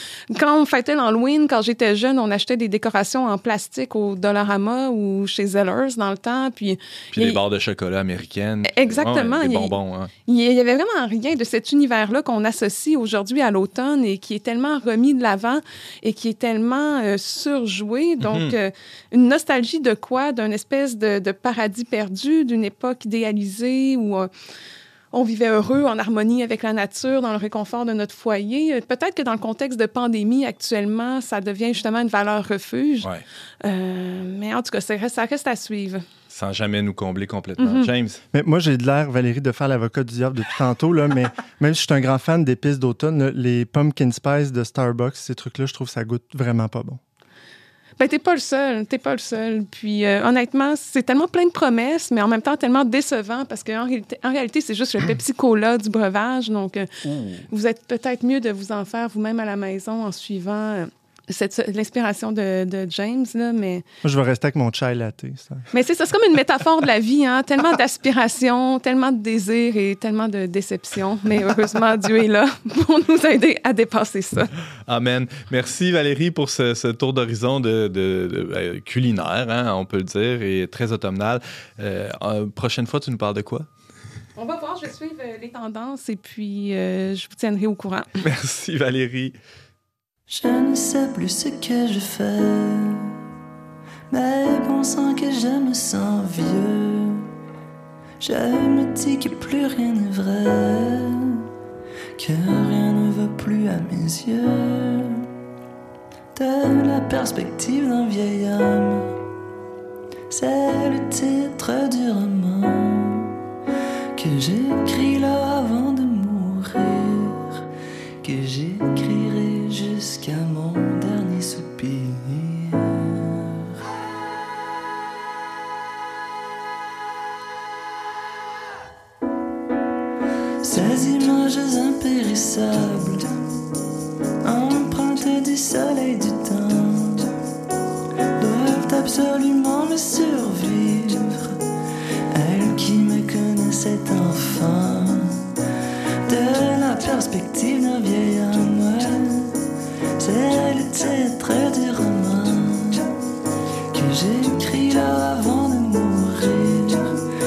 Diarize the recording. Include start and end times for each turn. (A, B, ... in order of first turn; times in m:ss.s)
0:00.3-0:07.4 A
0:07.1-0:10.1 B
0:08.7-0:09.7 A
0:10.3-0:24.3 A
0:18.2-0:18.6 B
0:25.1-0:33.1 A
0:33.6-0:36.0 A
0:36.3-0:38.2 B
0:37.6-0:37.9 A
0:38.3-0:47.0 C
0:48.0-1:03.8 A
1:04.0-1:05.7 C
1:05.7-1:14.5 A
1:14.9-1:23.7 B
1:24.4-1:28.1 A
1:28.2-1:29.4 B
1:30.3-1:33.2 D
1:34.1-1:37.3 D
1:38.2-1:41.5 D
1:42.2-1:45.3 D
1:46.4-1:49.2 D
1:50.3-1:53.4 D
1:54.2-1:57.6 D
1:58.2-2:03.7 D
2:10.6-2:13.4 D
2:14.4-2:17.3 D
2:18.4-2:21.6 D
2:22.3-2:25.5 D
2:26.3-2:29.6 D
2:30.2-2:33.1 D
2:33.9-2:37.2 D